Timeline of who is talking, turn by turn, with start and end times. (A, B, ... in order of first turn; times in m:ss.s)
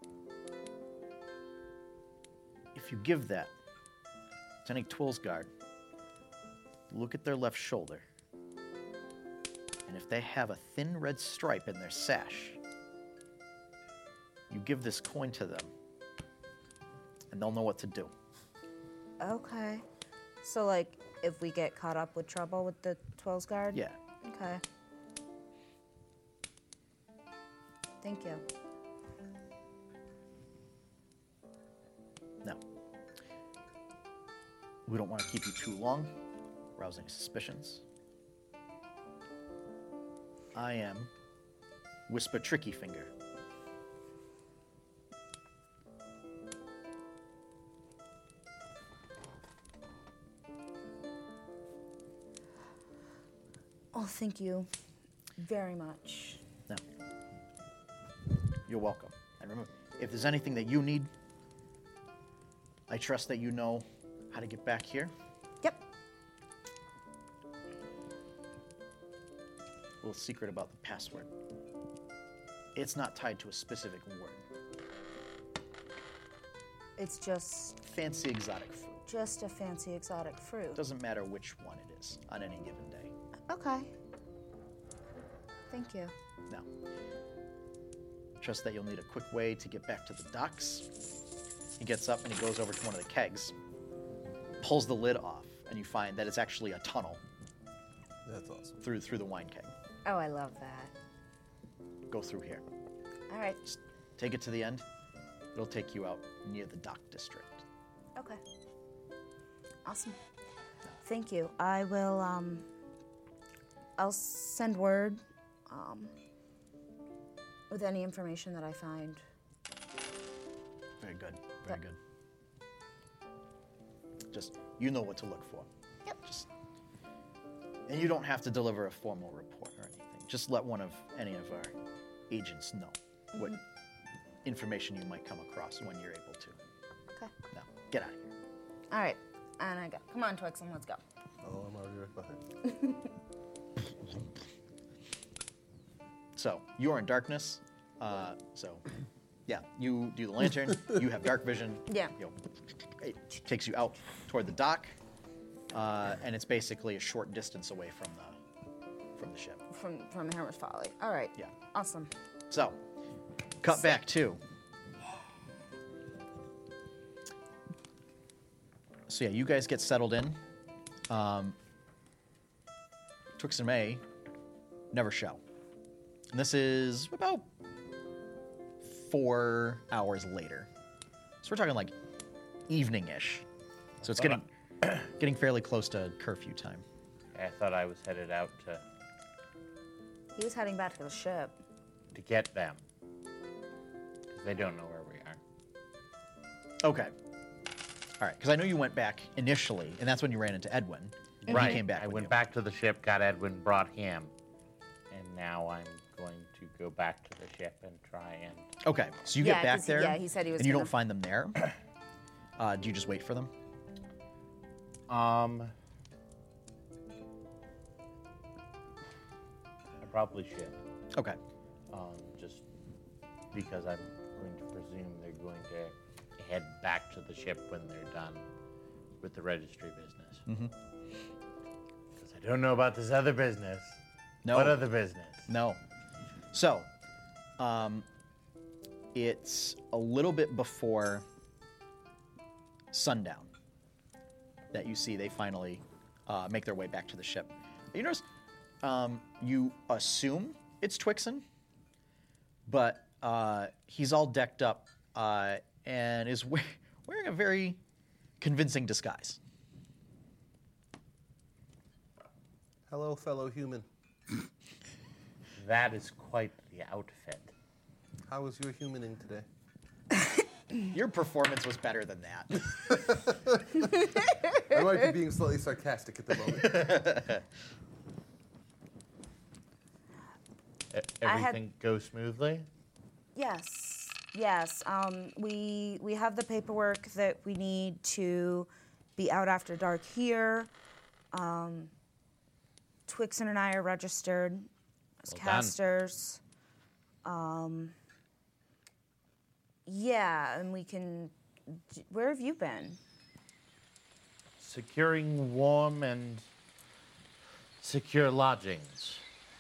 0:02.7-0:03.5 A
0:04.6-0:05.5 A
0:06.9-0:08.0 A
0:09.9-0:12.6 A
0:14.5-0:15.7 A
0:17.3-0:18.1 A
0:19.2-0:19.8 B
0:20.4-0:24.6 B
0:28.0-0:28.4 B
0:34.9-0:36.2 A
0:36.8-0:37.8 A
0:40.6-0:41.1 A
0:42.1-0:43.1 A
0:53.9-0:54.7 B
0:55.4-0:56.4 B
0:58.7-1:01.1 A
1:02.9-1:05.1 A
1:10.0-1:11.3 A
1:12.8-1:14.4 A
1:17.0-1:17.8 B
1:17.8-1:19.0 A
1:19.1-1:20.8 B
1:20.8-1:23.1 A
1:23.5-1:23.9 B
1:25.7-1:26.1 B
1:28.4-1:30.9 A
1:31.8-1:33.6 A
1:34.6-1:37.2 A
1:38.2-1:38.8 C
1:38.8-1:39.7 A
1:40.0-1:40.9 B
1:42.1-1:42.6 A
1:43.3-1:43.6 B
1:43.7-1:44.9 A
1:45.5-1:47.6 A
1:49.8-1:50.2 B
1:51.0-1:52.7 B
1:54.0-1:56.2 B
1:57.7-1:59.2 B
2:01.0-2:02.0 A
2:04.3-2:05.7 A
2:06.2-2:06.5 A
2:07.9-2:11.8 A
2:12.3-2:13.6 A
2:13.4-2:13.6 B
2:14.4-2:16.6 A
2:17.5-2:18.3 A
2:18.9-2:21.0 B
2:21.4-2:22.4 C
2:22.6-2:23.1 B
2:26.4-2:28.8 A
2:29.5-2:32.4 A
2:31.9-2:32.1 B
2:33.0-2:35.0 A
2:35.7-2:38.4 A
2:39.2-2:39.6 A
2:39.7-2:42.1 B
2:42.5-2:42.8 A
2:43.6-2:44.4 A
2:49.1-2:50.4 A
2:51.1-2:51.6 A
2:53.4-2:54.0 A
2:54.9-2:55.4 A
2:56.3-2:57.5 A
2:58.8-3:00.7 A
3:01.4-3:02.0 A
3:02.7-3:03.5 A
3:04.0-3:06.8 A
3:04.0-3:04.4 D
3:07.4-3:08.8 D
3:10.4-3:11.6 B
3:12.1-3:12.8 D
3:14.3-3:15.4 D
3:16.8-3:17.1 A
3:18.2-3:22.4 A
3:21.5-3:24.3 D
3:21.5-3:21.8 B
3:25.1-3:28.7 D
3:28.8-3:31.7 A
3:29.4-3:30.9 B
3:32.6-3:33.5 A
3:35.1-3:35.7 D
3:40.0-3:40.8 D
3:41.1-3:41.4 A
3:41.9-3:42.6 D
3:43.5-3:48.4 D
3:49.2-3:50.4 D
3:50.5-3:50.7 A
3:52.2-3:54.0 D
3:54.4-3:54.8 A
3:54.5-3:55.5 D
3:55.5-3:55.8 A
3:56.5-3:56.9 A
3:57.6-3:58.1 A
3:59.1-4:01.2 A
4:02.9-4:03.5 A
4:04.7-4:08.2 A
4:08.8-4:11.4 A
4:12.7-4:17.8 A
4:18.4-4:19.4 A
4:22.9-4:23.9 C
4:25.6-4:27.5 D
4:28.3-4:29.5 C
4:30.9-4:32.7 A
4:32.9-4:34.0 C
4:34.6-4:37.1 C
4:36.5-4:37.4 A
4:40.9-4:42.7 D
4:41.2-4:41.6 B
4:43.4-4:50.7 B
4:51.3-4:51.9 B
4:53.1-4:54.7 B
4:55.2-4:56.4 B
4:55.3-4:55.8 D
4:57.2-4:58.0 B
4:59.9-5:03.0 B
5:04.6-5:06.5 D
5:07.8-5:09.2 D